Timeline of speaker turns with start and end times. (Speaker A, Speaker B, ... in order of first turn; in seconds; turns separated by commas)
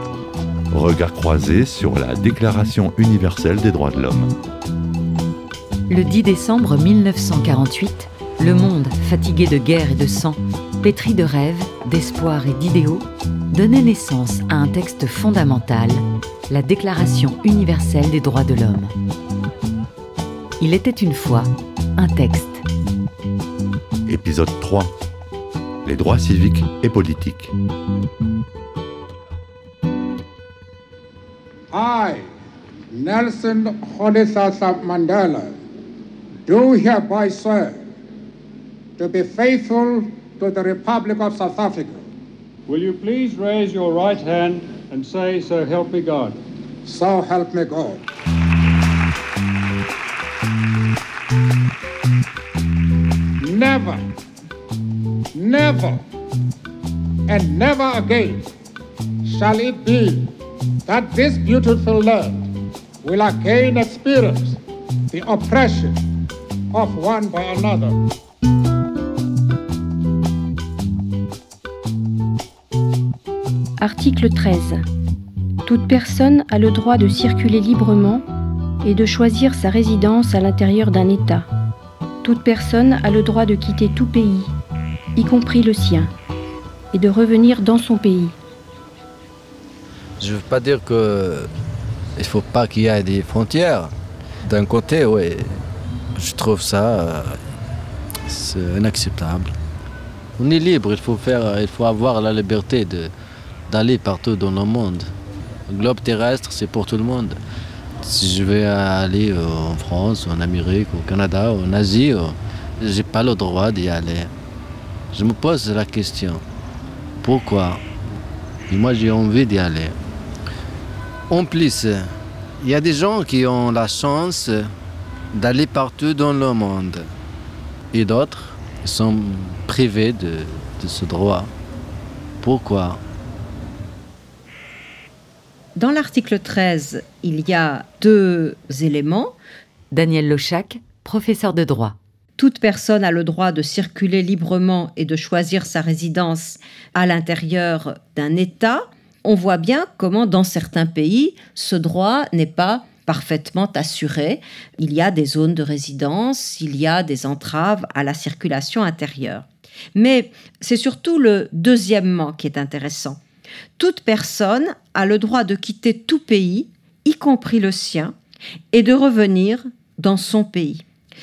Speaker A: 0.7-4.3, Speaker B: 5.9-18.9, Speaker B: 20.6-22.6, Speaker A: 24.1-24.9, Speaker A: 25.8-27.5, Speaker C: 31.7-32.2, Speaker C: 32.9-35.5, Speaker C: 36.5-37.8, Speaker C: 39.0-42.0, Speaker D: 42.7-46.4, Speaker C: 46.9-48.0, Speaker C: 53.4-54.0, Speaker C: 55.3-56.0, Speaker C: 57.3-58.4, Speaker C: 59.2-60.3, Speaker C: 60.9-62.4, Speaker C: 63.0-64.6, Speaker C: 65.1-66.0, Speaker C: 66.7-67.9, Speaker E: 73.8-74.8, Speaker E: 75.6-78.2, Speaker E: 78.8-81.5, Speaker E: 82.2-84.5, Speaker E: 85.2-86.1, Speaker E: 86.9-88.3, Speaker F: 90.2-91.5, Speaker F: 92.2-93.9, Speaker F: 94.4-95.6, Speaker F: 96.2-97.4, Speaker F: 98.3-99.5, Speaker F: 100.4-103.1, Speaker F: 103.7-105.1, Speaker F: 105.7-107.4, Speaker F: 108.0-114.3, Speaker F: 115.1-116.4, Speaker F: 117.2-117.8, Speaker F: 118.7-120.0, Speaker F: 121.3-124.7, Speaker F: 125.3-127.1, Speaker F: 127.9-131.5, Speaker F: 132.4-133.0, Speaker G: 135.7-139.3, Speaker B: 139.9-141.9, Speaker G: 142.4-163.2, Speaker G: 163.8-168.1, Speaker G: 168.7-170.8